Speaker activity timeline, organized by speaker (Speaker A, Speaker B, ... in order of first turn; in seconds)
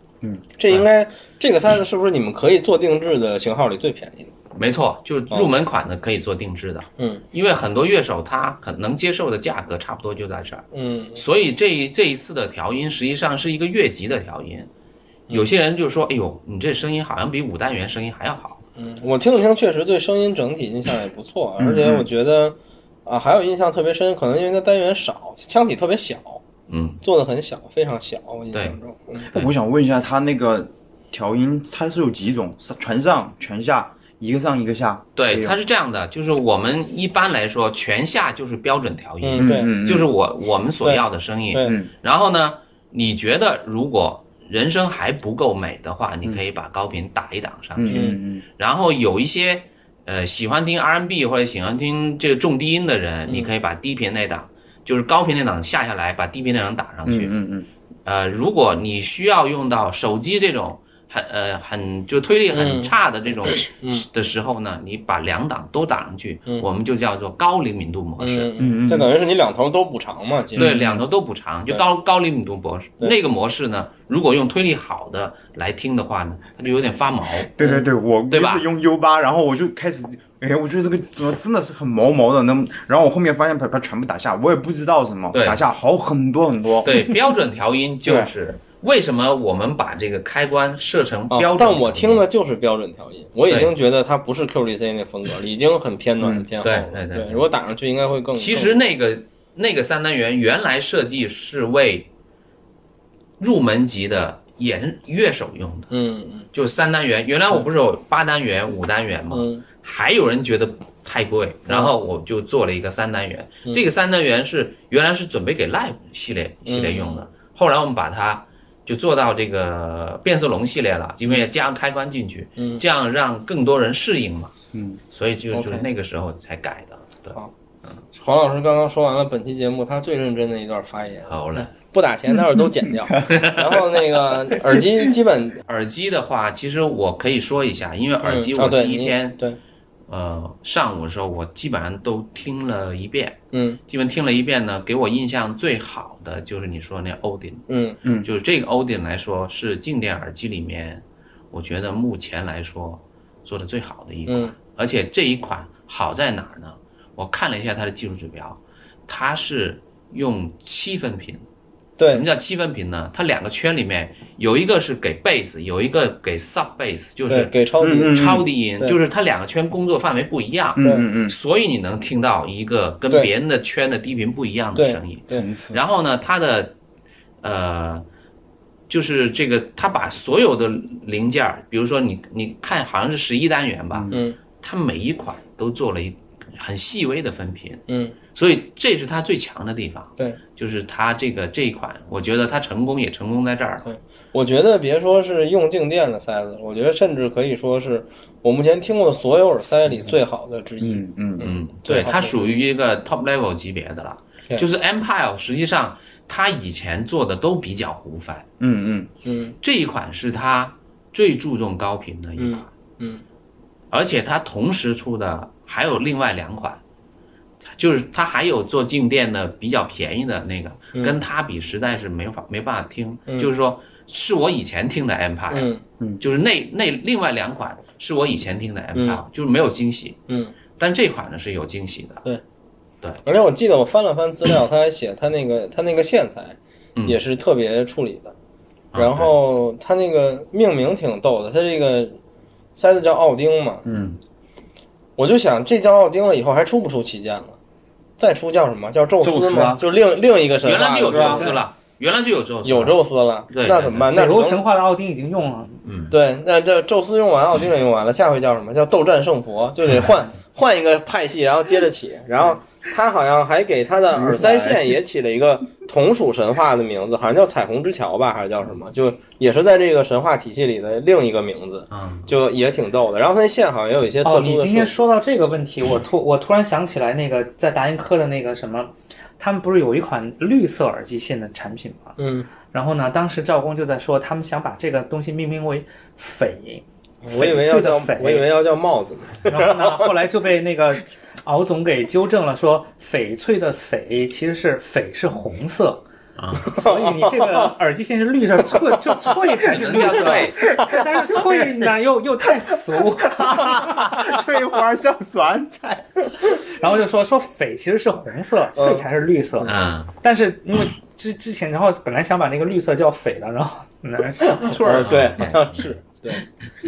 Speaker A: 0.6-4.3, 10.7-11.2, 18.8-26.4, 27.0-29.3, 39.2-39.7, 40.8-41.8, 47.9-48.2, 62.5-62.9, 63.5-64.1, 68.2-70.7, 91.3-98.8, 105.9-106.5, 109.3-109.6, 116.7-117.2, 122.6-122.8, 125.5-125.9, 128.1-135.6, 138.2-139.6, 143.5-143.8, 147.7-148.0, 154.3-154.5, 162.0-162.2, 167.3-168.2, 170.8-171.1, 174.8-175.4, 184.1-184.4, 187.9-188.2, 193.8-202.5, 209.2-209.6, 212.4-213.2, 225.5-225.8, 228.9-229.2, 230.3-230.5, 233.2-238.3, 239.0-242.2, 242.8-243.8, 245.2-247.6, 248.2-251.6, 252.7-254.6, 256.1-274.9, 282.2-282.5, 287.2-290.1, 296.6-297.7, 308.8-309.1, 314.5-316.5
Speaker B: 4.5-14.7, 15.3-18.6, 26.7-27.0, 35.2-57.3, 58.0-68.5, 70.6-77.5, 78.3-78.7, 85.3-85.6, 86.8-92.3, 93.5-93.7, 96.6-97.5, 98.3-102.1, 103.4-105.9, 106.5-124.5, 125.1-128.0, 131.3-131.7, 133.3-133.8, 135.7-139.4, 140.1-147.7, 148.2-161.4, 162.1-176.7, 177.4-178.1, 178.9-193.9, 201.4-208.5, 209.6-212.7, 213.9-216.8, 217.7-230.2, 230.8-232.2, 238.9-239.3, 250.6-253.0, 253.5-254.1, 255.8-256.1, 271.9-272.3, 296.4-296.7, 299.6-300.8, 309.6-310.1, 314.8-315.9
Speaker C: 21.6-22.1, 29.3-35.6, 39.4-40.1, 41.6-41.9, 47.8-48.4, 57.1-57.7, 68.6-69.1, 70.6-71.0, 77.5-87.1, 88.0-88.3, 96.2-96.5, 124.7-125.0, 148.0-148.3, 167.8-168.5, 170.8-171.4, 175.3-175.8, 183.9-184.2, 200.8-201.5, 208.6-209.1, 243.8-244.2, 249.2-249.8, 251.1-251.5, 264.1-264.9, 301.1-301.9, 302.9-306.4
Speaker D: 251.4-251.6, 254.1-255.8, 274.2-288.5, 289.5-296.0, 296.7-304.2, 306.5-315.3